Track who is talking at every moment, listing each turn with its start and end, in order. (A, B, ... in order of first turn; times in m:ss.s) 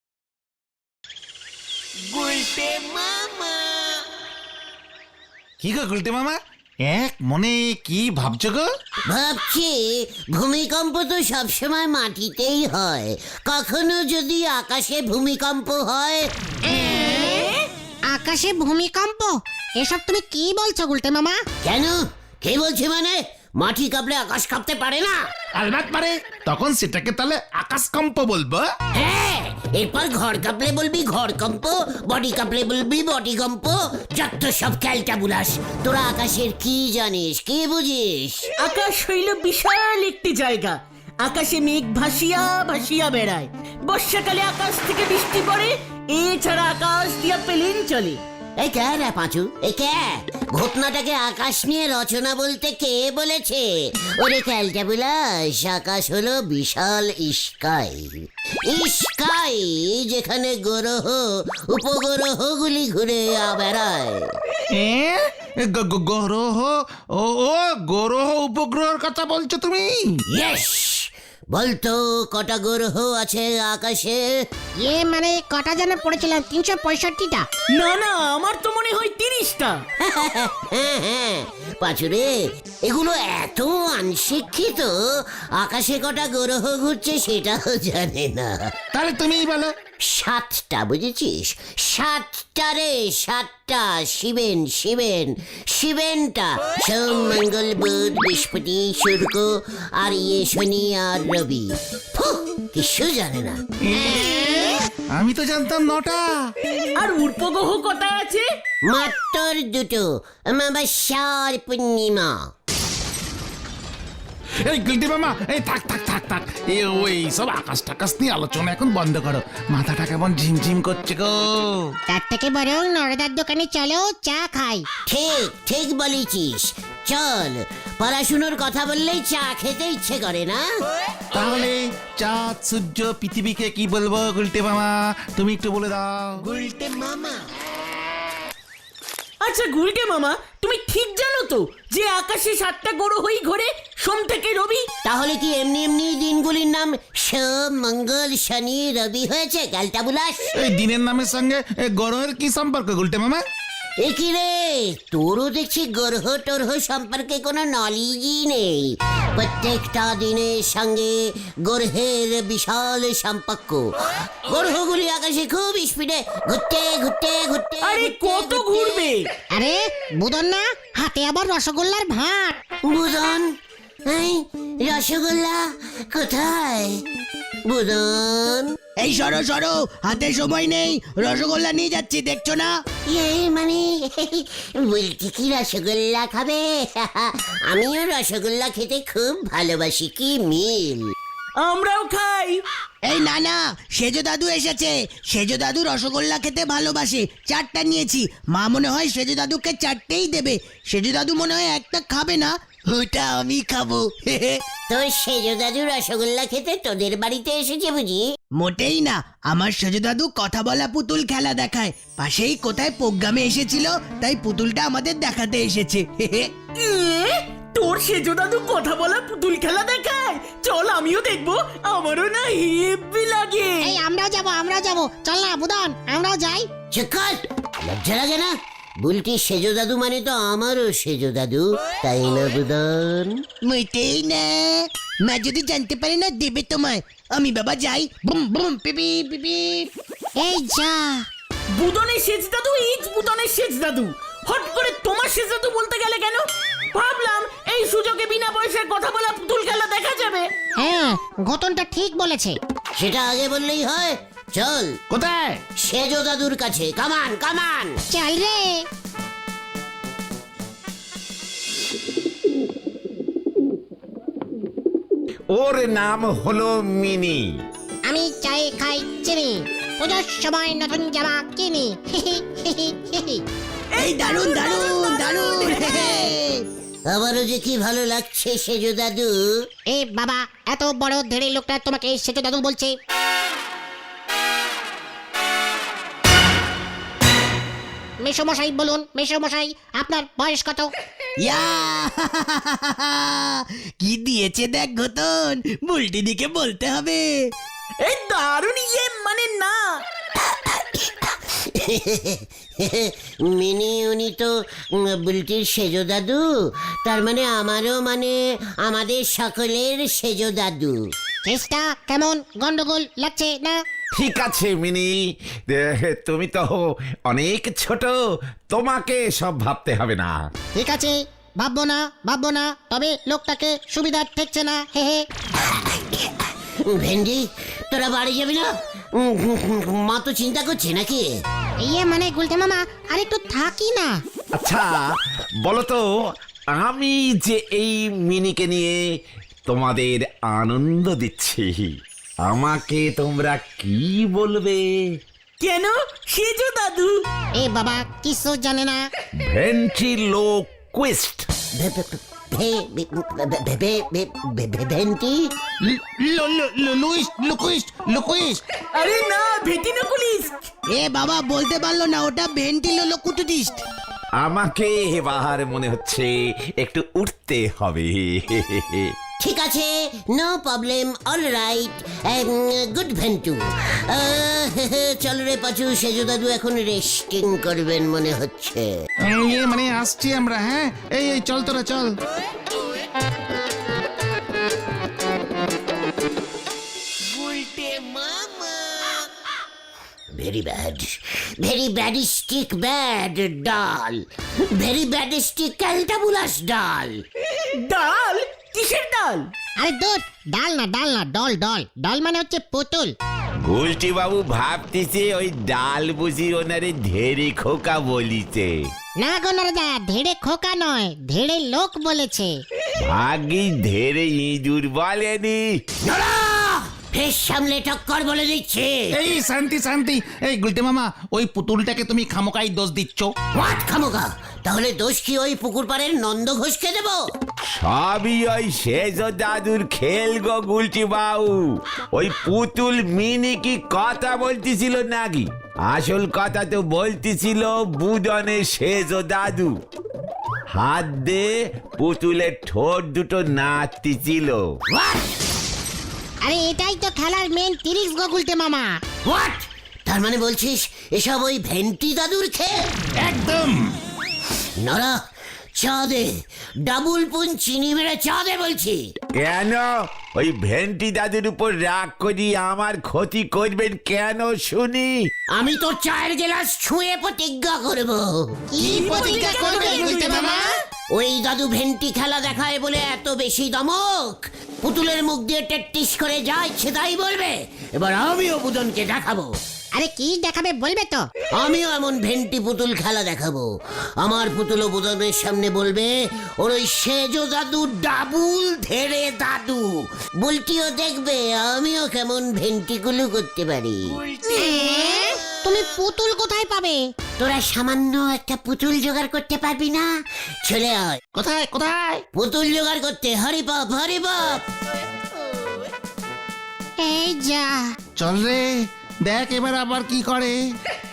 0:05.6-0:08.7 A
0:09.1-0:16.3 B
0:16.7-0:17.5 C
0:16.7-0:17.6 D
0:18.1-0:21.4 C
0:21.6-0:25.2 B
0:25.6-0:28.7 A
0:29.0-0:38.5 B
0:38.6-0:48.2 D
0:48.6-1:04.3 B
1:04.7-1:10.2 A
1:10.3-1:14.2 B
1:14.8-1:17.5 C
1:17.7-1:19.8 D
1:20.0-1:22.3 B
1:22.8-1:25.0 B
1:25.6-1:28.7 B
1:28.9-1:29.7 A
1:30.0-1:44.2 B
1:43.8-1:44.5 A
1:45.1-1:46.5 A
1:47.0-1:48.4 D
1:48.9-1:52.3 B
1:54.6-2:01.9 A
2:02.1-2:04.9 C
2:05.1-2:10.6 B
2:11.3-2:16.5 A
2:19.4-2:24.8 D
2:25.0-2:30.5 B
2:30.6-2:33.4 A
2:34.0-2:43.9 B
2:44.5-2:49.1 B
2:47.8-2:49.2 D
2:49.5-2:52.6 C
2:52.8-2:53.5 B
2:54.1-2:57.0 B
2:57.7-2:58.7 B
2:59.0-3:02.8 E
3:03.1-3:11.1 B
3:11.6-3:12.6 D
3:13.0-3:24.6 E
3:24.9-3:28.2 B
3:28.5-3:36.5 E
3:36.8-3:44.0 D
3:43.8-3:46.7 C
3:46.9-3:53.4 B
3:53.6-3:59.9 E
4:00.4-4:01.2 C
4:01.7-4:10.5 D
4:10.8-4:12.6 C
4:13.0-4:15.0 B
4:15.1-4:15.6 A
4:15.8-4:18.0 B
4:18.1-4:18.8 C
4:25.5-4:27.5 F
4:28.1-4:33.4 C
4:33.9-4:34.5 D
4:34.0-4:36.6 E
4:37.1-4:39.4 B
4:39.9-4:43.0 C
4:48.2-4:50.9 C
4:51.4-4:57.5 E
4:58.0-5:00.0 D
5:00.8-5:04.5 B
5:05.0-5:06.4 B
5:07.0-5:11.0 B
5:11.4-5:13.8 C
5:14.1-5:18.2 F
5:18.7-5:20.4 F
5:20.8-5:25.2 C
5:25.6-5:31.3 B
5:31.8-5:34.2 C
5:34.5-5:35.1 F
5:35.6-5:36.0 F
5:36.7-5:39.0 F
5:39.7-5:41.9 F
5:42.4-5:45.2 F
5:45.6-5:47.2 D
5:47.6-5:49.0 C
5:49.4-5:51.5 F
5:51.8-5:55.4 B
5:55.8-5:58.6 A
5:58.9-6:00.6 D
6:00.9-6:03.8 E
6:04.4-6:09.1 F
6:09.4-6:18.9 B
6:19.2-6:22.1 A
6:30.3-6:34.2 B
6:34.7-6:37.2 B
6:37.8-6:39.5 D
6:39.8-6:43.1 C
6:43.6-6:48.8 F
6:49.2-6:52.6 C
6:53.0-6:55.8 F
6:56.0-6:59.2 B
6:59.1-7:03.3 A
7:03.5-7:07.2 B
7:07.8-7:19.7 F
7:20.7-7:24.6 F
7:24.9-7:25.3 B
7:26.4-7:29.0 C
7:29.2-7:32.8 B
7:33.2-7:33.9 A
7:34.8-7:35.1 B
7:35.8-7:36.3 B
7:36.9-7:39.0 B
7:39.3-7:45.3 F
7:45.5-7:48.6 B
7:48.7-7:50.6 C
7:48.8-7:50.7 D
7:49.4-7:50.3 A
7:51.1-7:59.5 B
7:59.9-8:01.2 C
8:01.5-8:03.7 B
8:04.2-8:09.8 B
8:10.4-8:14.2 B
8:14.2-8:15.2 E
8:14.5-8:17.0 C
8:17.4-8:20.0 B
8:20.6-8:21.2 B
8:21.3-8:22.2 A
8:22.3-8:24.6 B
8:27.0-8:27.9 C
8:28.2-8:30.6 A